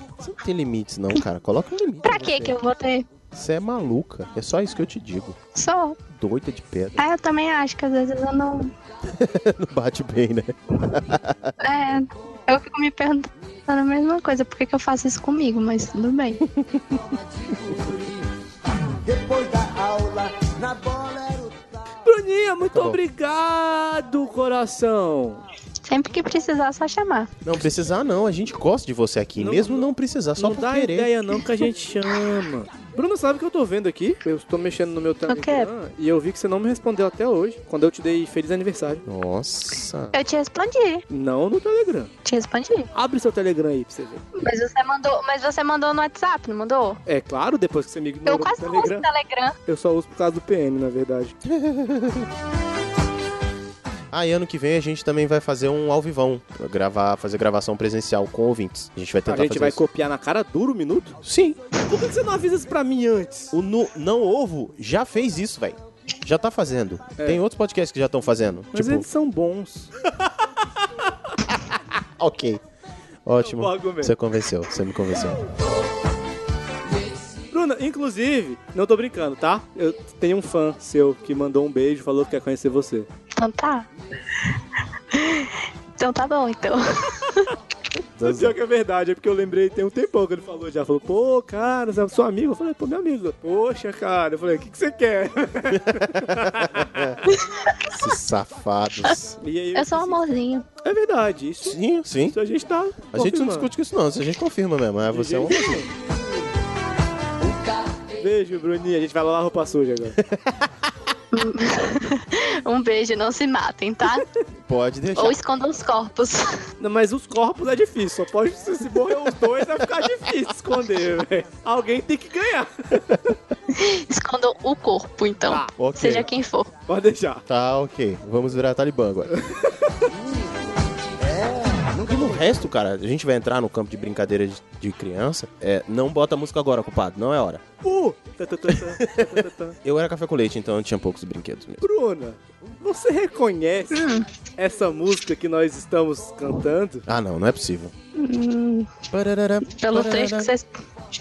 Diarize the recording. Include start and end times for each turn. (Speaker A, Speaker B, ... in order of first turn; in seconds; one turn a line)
Speaker A: 0.2-2.6
Speaker B: 2.0-3.1
Speaker A: 3.3-5.4
Speaker B: 5.5-6.0
Speaker A: 6.1-7.0
Speaker B: 7.0-8.7
Speaker A: 9.1-11.5
Speaker B: 11.6-16.4
Speaker A: 16.6-16.8
Speaker C: 17.1-18.2
Speaker C: 19.0-21.7
Speaker D: 22.0-25.4
Speaker A: 22.7-23.0
Speaker B: 25.9-27.3
Speaker A: 27.4-31.1
Speaker D: 29.4-39.0
Speaker B: 35.3-35.7
Speaker A: 39.1-40.1
Speaker B: 40.1-41.0
Speaker D: 41.1-42.1
Speaker B: 42.2-42.9
Speaker D: 42.9-44.2
Speaker B: 44.4-47.0
Speaker D: 47.1-49.1
Speaker B: 48.2-49.5
Speaker D: 49.6-51.3
Speaker A: 51.4-52.3
Speaker A: 54.1-59.8
Speaker D: 59.3-61.2
Speaker A: 61.2-61.6
Speaker D: 61.8-63.5
Speaker A: 63.5-69.1
Speaker D: 67.2-67.4
Speaker D: 68.7-71.1
Speaker A: 72.2-72.6
Speaker A: 73.2-75.4
Speaker D: 73.4-74.1
Speaker D: 77.5-83.1
Speaker B: 83.4-83.9
Speaker B: 85.1-87.5
Speaker A: 88.2-88.5
Speaker D: 88.2-97.3
Speaker A: 95.7-97.2
Speaker B: 97.3-97.8
Speaker A: 97.9-99.4
Speaker D: 99.4-100.2
Speaker B: 99.7-100.7
Speaker D: 100.8-101.8
Speaker A: 101.6-102.4
Speaker D: 102.3-103.7
Speaker A: 103.1-105.9
Speaker D: 105.1-105.9
Speaker D: 108.2-110.2
Speaker A: 110.2-110.7
Speaker B: 111.3-114.2
Speaker A: 114.7-115.4
Speaker B: 115.1-116.6
Speaker D: 116.8-123.3
Speaker B: 123.7-126.7
Speaker D: 125.4-125.7
Speaker A: 125.8-126.3
Speaker D: 126.9-127.4
Speaker A: 127.5-129.3
Speaker D: 129.5-130.1
Speaker C: 131.3-132.3
Speaker A: 132.0-137.6
Speaker D: 137.8-139.8
Speaker A: 138.7-141.8
Speaker D: 141.8-147.0
Speaker B: 143.9-144.3
Speaker A: 147.1-147.9
Speaker B: 148.2-148.9
Speaker A: 149.1-150.5
Speaker B: 149.7-150.7